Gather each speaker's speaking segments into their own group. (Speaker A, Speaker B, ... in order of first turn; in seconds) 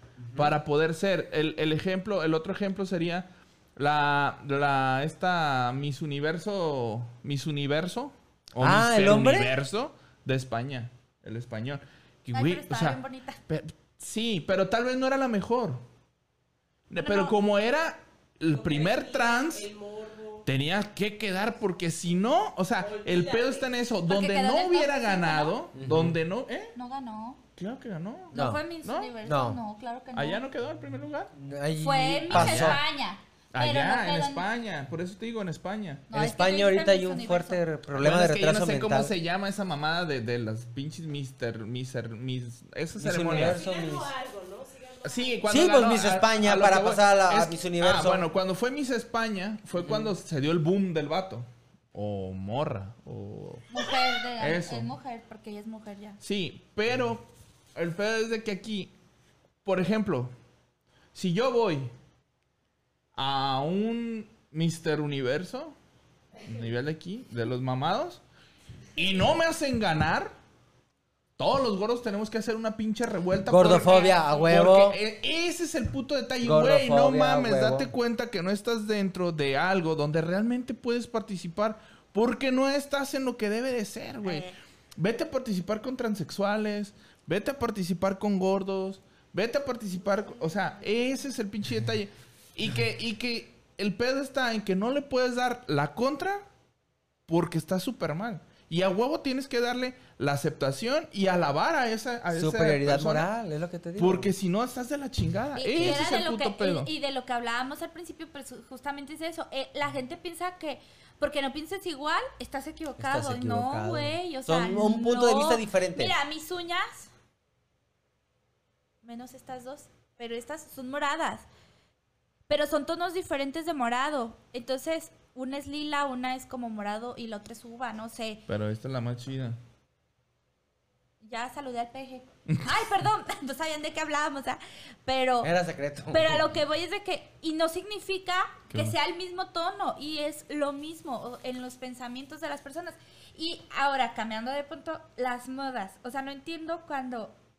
Speaker A: 0.2-0.6, 8.6-9.6, 25.7-26.2, 28.3-28.6, 29.2-29.6, 31.3-32.8, 36.1-39.1, 43.0-44.1, 45.5-48.3, 49.8-50.2, 73.5-75.0, 76.4-77.9, 102.3-104.3, 105.8-106.1, 113.0-116.2, 135.4-136.5
Speaker B: 0.3-15.8, 16.9-19.7, 20.4-26.7, 27.6-29.1, 30.1-31.3, 32.3-32.8, 33.5-36.1, 38.0-43.6, 45.0-53.7, 54.4-54.9, 56.2-58.9, 59.6-60.3, 61.1-61.9, 63.2-65.8, 66.4-68.2, 69.0-70.3, 71.4-96.5, 97.3-103.3, 104.0-106.9, 128.5-129.6
Speaker C: 12.3-13.4, 17.0-17.4, 24.1-25.6, 26.7-27.4, 28.3-30.4, 31.8-34.5, 36.1-37.6, 53.7-56.2, 105.5-117.1, 119.0-121.5, 122.5-128.4, 131.2-135.5, 136.1-147.3
Speaker D: 18.5-20.5, 22.8-23.7, 43.3-45.7